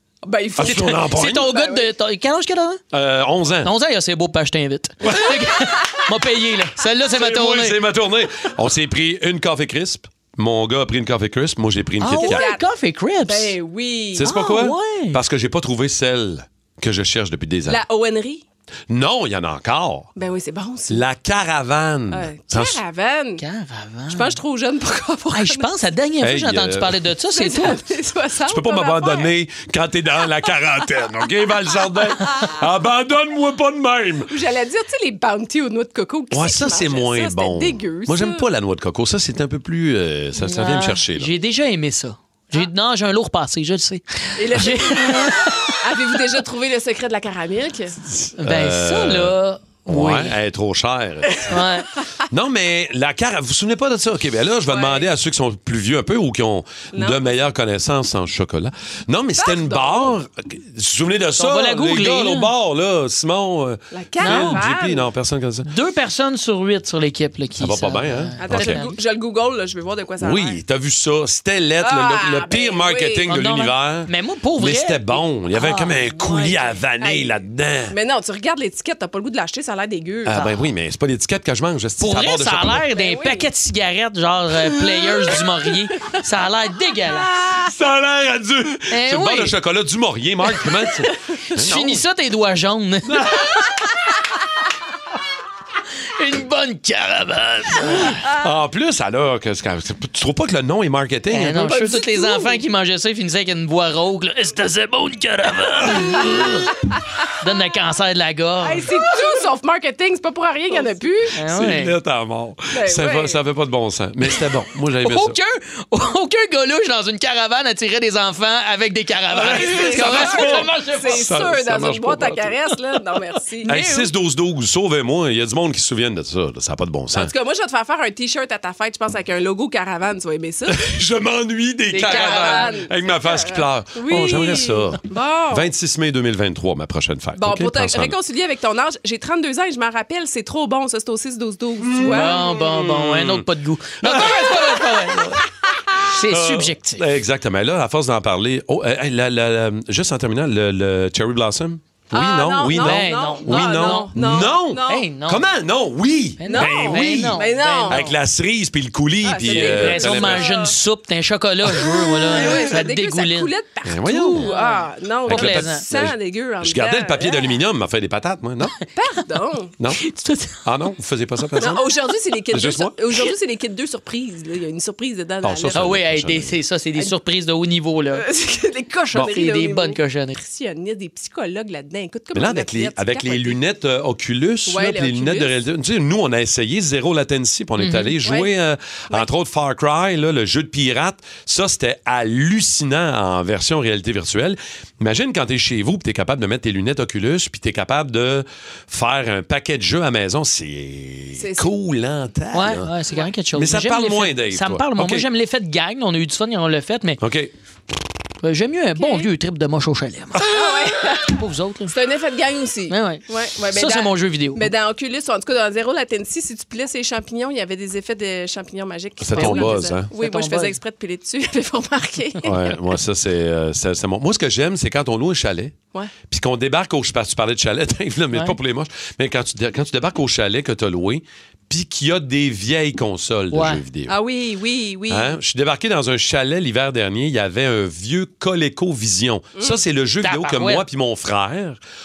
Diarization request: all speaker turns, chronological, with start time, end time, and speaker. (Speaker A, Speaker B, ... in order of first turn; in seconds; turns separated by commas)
Speaker A: 0.2-1.9, Speaker B: 0.6-1.5, Speaker C: 0.7-2.8, Speaker B: 2.9-3.7, Speaker C: 3.6-7.8, Speaker B: 5.0-5.5, Speaker B: 7.1-12.4, Speaker C: 12.0-13.6, Speaker A: 12.1-12.7, Speaker A: 13.2-14.3, Speaker B: 14.2-17.8, Speaker C: 14.2-15.2, Speaker A: 17.7-18.4, Speaker B: 18.9-20.1, Speaker A: 20.2-21.0, Speaker B: 20.9-22.8, Speaker A: 22.1-23.4, Speaker C: 23.4-24.4, Speaker A: 24.1-25.7, Speaker C: 25.3-27.8, Speaker B: 26.2-27.0, Speaker A: 27.3-29.3, Speaker B: 28.5-34.3, Speaker A: 34.3-38.4, Speaker B: 36.3-41.3, Speaker C: 40.4-45.8, Speaker A: 44.4-48.0, Speaker B: 48.0-49.4, Speaker C: 48.4-50.4, Speaker B: 49.9-51.5, Speaker C: 51.5-51.9, Speaker B: 52.3-65.7, Speaker A: 54.7-55.1, Speaker A: 56.9-57.2, Speaker A: 59.4-60.1, Speaker C: 61.4-62.5, Speaker A: 63.9-65.1, Speaker C: 64.2-64.6, Speaker C: 65.6-69.0, Speaker B: 67.6-68.8, Speaker A: 68.4-70.6, Speaker B: 70.2-78.0, Speaker A: 71.8-73.3, Speaker C: 73.3-76.8, Speaker A: 77.0-77.3, Speaker A: 77.9-80.4, Speaker B: 80.3-82.8, Speaker C: 80.3-80.6, Speaker C: 82.0-87.3, Speaker A: 82.9-83.5, Speaker B: 87.6-92.0, Speaker C: 88.9-89.5, Speaker C: 91.5-93.7, Speaker B: 93.1-93.6, Speaker C: 96.2-98.2, Speaker B: 98.3-101.7, Speaker C: 101.3-106.8, Speaker A: 101.7-102.5, Speaker C: 107.4-109.0, Speaker A: 108.6-111.3, Speaker C: 111.3-112.0, Speaker B: 111.5-115.4, Speaker A: 112.7-113.4, Speaker C: 115.0-121.2, Speaker B: 119.3-122.8, Speaker A: 119.5-124.1, Speaker B: 123.6-127.3, Speaker A: 127.1-130.8, Speaker B: 130.7-138.2, Speaker C: 131.9-132.8, Speaker A: 132.0-135.7, Speaker A: 137.4-142.4, Speaker B: 141.8-143.5, Speaker C: 142.1-145.4, Speaker B: 144.0-145.3, Speaker A: 144.2-144.6, Speaker C: 146.1-147.0, Speaker B: 146.3-160.5, Speaker A: 152.1-155.1, Speaker C: 152.7-155.4, Speaker C: 156.4-158.1, Speaker A: 156.5-158.1, Speaker A: 159.2-160.7, Speaker C: 159.4-163.5, Speaker A: 162.0-167.6, Speaker B: 162.3-162.7, Speaker B: 163.8-164.5, Speaker C: 164.3-165.8, Speaker B: 165.2-168.8, Speaker A: 168.9-169.7, Speaker C: 170.0-170.6, Speaker B: 170.6-173.0, Speaker A: 171.6-176.0, Speaker B: 175.4-176.6, Speaker C: 175.7-178.3, Speaker A: 178.1-183.6, Speaker C: 179.1-180.3, Speaker B: 182.3-202.9, Speaker A: 184.7-185.6, Speaker C: 187.8-188.2, Speaker A: 188.2-188.5, Speaker A: 201.4-201.7, Speaker C: 202.5-207.2, Speaker B: 203.5-205.3, Speaker B: 207.2-207.5, Speaker C: 208.4-210.5, Speaker A: 209.0-209.3, Speaker A: 210.5-222.8, Speaker C: 211.3-211.9, Speaker C: 212.9-214.7, Speaker B: 219.2-220.1, Speaker C: 219.3-220.8, Speaker B: 222.4-225.7, Speaker B: 226.3-234.2, Speaker C: 233.5-233.8, Speaker A: 234.1-235.3, Speaker B: 235.1-241.8, Speaker C: 240.2-240.8